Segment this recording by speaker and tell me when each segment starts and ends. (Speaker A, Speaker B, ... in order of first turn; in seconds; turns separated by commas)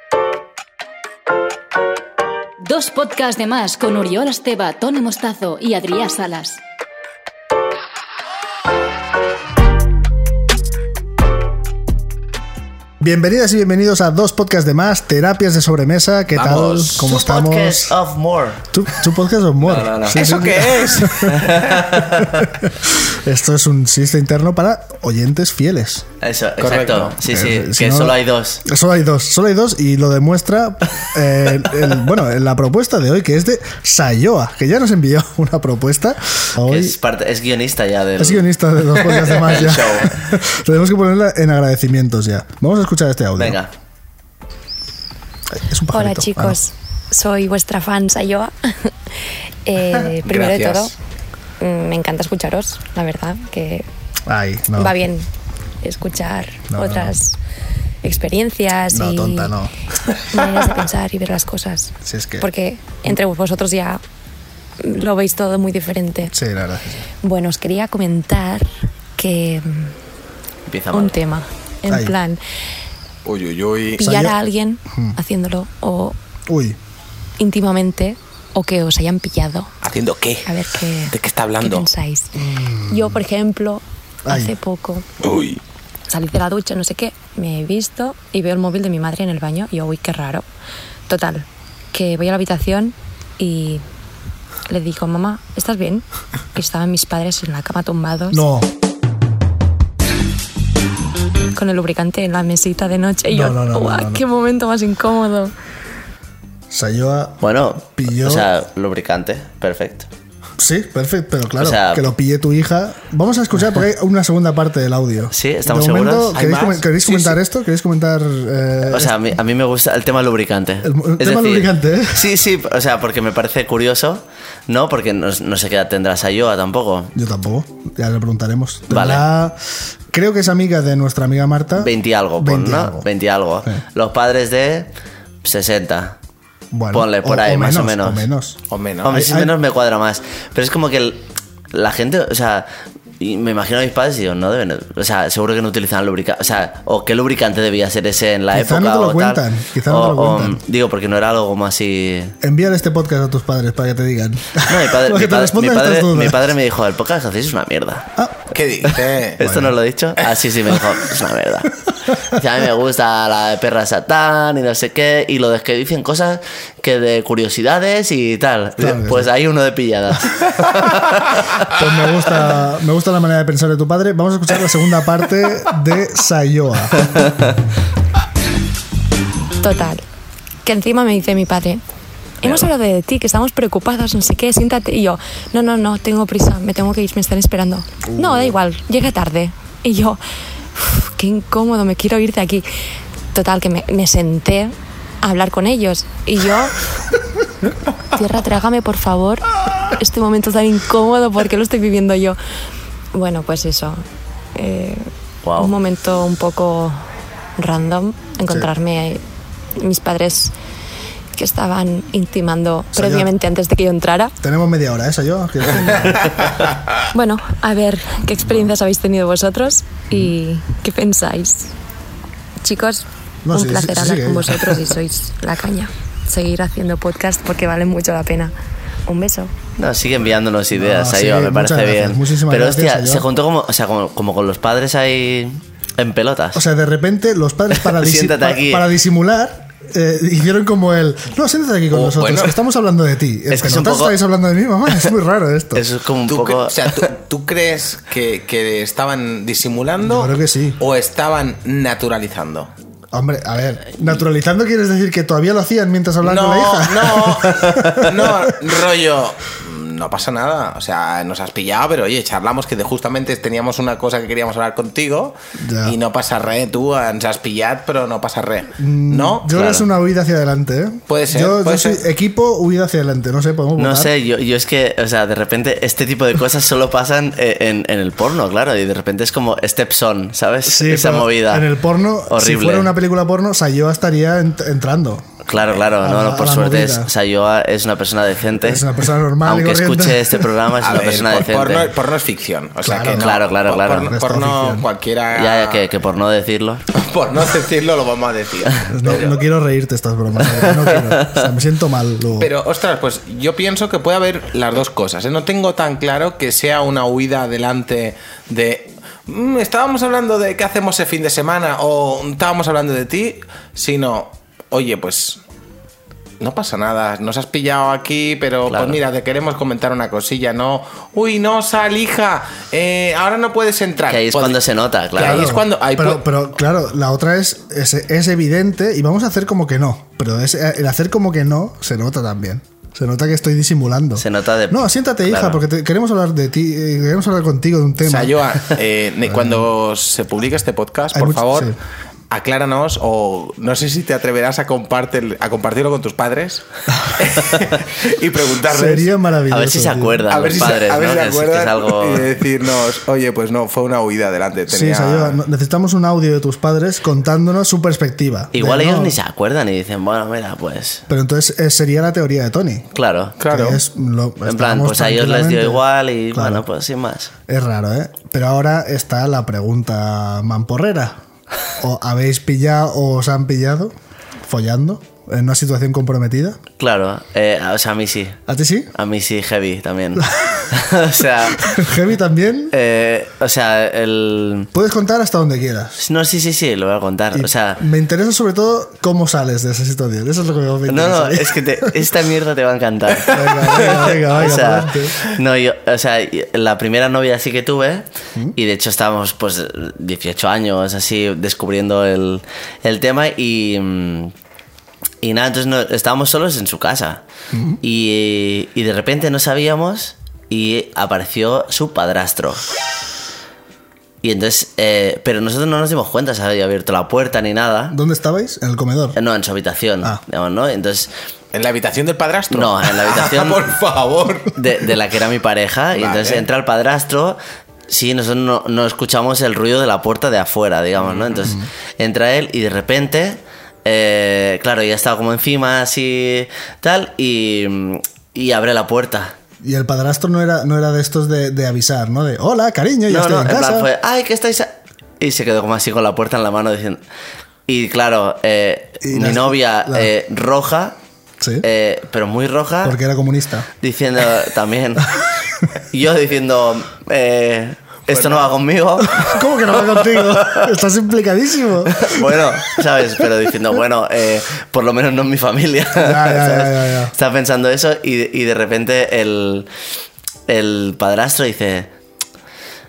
Speaker A: 2.6-6.6, Speaker B: 13.0-18.0, Speaker C: 16.3-17.1, Speaker D: 17.0-18.6, Speaker B: 18.7-26.1, Speaker D: 19.6-20.3, Speaker C: 20.1-21.6, Speaker D: 21.2-22.3, Speaker D: 26.2-28.6, Speaker C: 26.6-27.2, Speaker B: 27.2-37.0, Speaker D: 36.6-40.1, Speaker B: 38.2-43.6, Speaker D: 43.4-43.7, Speaker B: 45.5-46.6, Speaker E: 45.9-48.9, Speaker E: 49.6-50.9, Speaker C: 50.2-50.9, Speaker E: 51.6-53.9, Speaker B: 54.3-55.0, Speaker E: 54.8-55.3, Speaker E: 55.8-57.4, Speaker B: 56.7-57.1, Speaker E: 58.0-59.5, Speaker B: 58.9-59.7, Speaker E: 60.3-64.0, Speaker B: 62.0-62.5, Speaker E: 64.8-66.3, Speaker B: 66.3-67.1, Speaker E: 67.2-69.9, Speaker D: 70.7-71.1, Speaker E: 70.9-72.4, Speaker B: 71.9-72.2, Speaker C: 73.2-74.1, Speaker E: 74.0-76.2, Speaker B: 74.0-74.4, Speaker B: 74.9-75.2, Speaker B: 76.5-76.8, Speaker E: 77.4-79.7, Speaker C: 79.8-81.9, Speaker E: 80.5-85.1, Speaker B: 82.3-83.2, Speaker B: 84.2-84.5, Speaker C: 85.2-85.6, Speaker E: 86.1-90.4, Speaker E: 91.1-93.8, Speaker E: 94.7-98.4, Speaker B: 98.3-98.7, Speaker E: 101.5-105.5, Speaker B: 103.3-104.2, Speaker B: 106.7-108.5, Speaker D: 107.4-110.1, Speaker B: 110.6-119.1, Speaker D: 111.6-112.1, Speaker D: 115.3-116.3, Speaker C: 116.3-117.4, Speaker D: 118.9-127.1, Speaker B: 120.8-122.3, Speaker B: 127.1-133.1, Speaker D: 128.9-129.2, Speaker D: 131.8-134.9, Speaker D: 135.4-136.2, Speaker B: 136.7-139.5, Speaker D: 136.9-138.3, Speaker C: 138.7-139.1, Speaker D: 139.0-142.7, Speaker D: 143.2-152.3, Speaker B: 148.5-150.6, Speaker B: 152.4-156.5, Speaker D: 154.6-158.1, Speaker C: 158.5-159.4, Speaker D: 159.4-161.7, Speaker B: 159.4-159.7, Speaker D: 162.2-171.0, Speaker B: 168.8-169.3, Speaker B: 171.7-177.1, Speaker E: 179.6-180.0, Speaker E: 180.6-181.8, Speaker E: 182.4-190.2, Speaker B: 188.0-188.6, Speaker E: 190.7-192.7, Speaker E: 193.3-196.8, Speaker E: 198.1-202.4, Speaker E: 203.1-204.0, Speaker E: 204.5-207.0, Speaker D: 205.4-205.7, Speaker E: 207.6-209.2, Speaker E: 209.8-210.5, Speaker E: 211.3-214.3, Speaker B: 212.9-213.3, Speaker B: 214.4-216.2, Speaker E: 215.7-216.2, Speaker C: 216.4-216.9, Speaker E: 217.1-221.7, Speaker E: 222.6-228.5, Speaker B: 223.4-224.7, Speaker E: 229.1-229.5, Speaker D: 229.8-236.6, Speaker B: 230.7-233.2, Speaker B: 236.5-245.8, Speaker D: 237.8-238.9, Speaker C: 241.9-242.6, Speaker D: 243.5-244.2, Speaker D: 245.7-247.0, Speaker C: 246.3-252.7, Speaker B: 250.0-250.8, Speaker B: 253.1-258.7, Speaker C: 256.2-269.6, Speaker B: 265.6-265.9, Speaker B: 268.8-274.1, Speaker D: 269.6-269.8, Speaker C: 271.1-272.0, Speaker D: 273.8-281.7, Speaker B: 280.6-285.3, Speaker D: 282.3-282.9, Speaker D: 285.5-288.8, Speaker B: 286.0-287.1, Speaker B: 288.6-290.5, Speaker D: 289.4-291.9, Speaker C: 290.8-295.9, Speaker B: 292.8-293.4, Speaker D: 293.1-294.1, Speaker B: 294.0-294.9, Speaker D: 295.3-296.8, Speaker C: 296.9-299.4, Speaker B: 298.9-302.5, Speaker D: 300.7-301.4, Speaker C: 302.4-315.4, Speaker C: 316.4-324.6, Speaker D: 318.7-319.0, Speaker D: 324.1-325.5, Speaker C: 325.1-326.2, Speaker B: 325.2-338.4, Speaker D: 334.2-335.6, Speaker C: 338.0-341.7, Speaker B: 339.3-339.6, Speaker B: 341.1-341.8, Speaker C: 342.3-349.1, Speaker B: 348.6-350.2, Speaker D: 349.5-352.3, Speaker C: 350.3-355.4, Speaker B: 354.7-359.1, Speaker D: 358.5-361.0, Speaker B: 361.1-362.9, Speaker D: 362.9-363.4, Speaker C: 363.4-363.8, Speaker B: 363.4-366.7, Speaker D: 364.4-367.3, Speaker B: 367.5-371.2, Speaker B: 371.8-376.6, Speaker D: 376.8-378.4, Speaker B: 378.5-378.9, Speaker D: 378.9-381.7, Speaker B: 380.2-380.7, Speaker B: 381.6-382.7, Speaker D: 382.7-384.7, Speaker B: 384.7-386.0, Speaker D: 386.0-387.8, Speaker B: 387.3-392.0, Speaker D: 390.9-404.3, Speaker B: 393.3-395.2, Speaker D: 405.2-407.2, Speaker B: 407.5-407.8, Speaker D: 407.8-412.7, Speaker D: 414.2-417.9, Speaker B: 417.9-419.2, Speaker D: 419.1-421.1, Speaker C: 421.5-424.5, Speaker D: 422.5-423.6, Speaker D: 424.5-439.3, Speaker C: 425.9-426.5, Speaker C: 431.1-431.4, Speaker B: 439.6-443.9, Speaker D: 443.1-447.0, Speaker D: 447.7-450.9, Speaker B: 449.0-450.1, Speaker B: 451.4-451.6, Speaker D: 451.6-453.0, Speaker B: 452.8-453.7, Speaker D: 453.8-455.1, Speaker D: 455.9-460.7, Speaker C: 458.1-458.4, Speaker B: 459.1-462.4, Speaker D: 461.9-469.7, Speaker B: 466.0-467.1, Speaker D: 470.5-471.9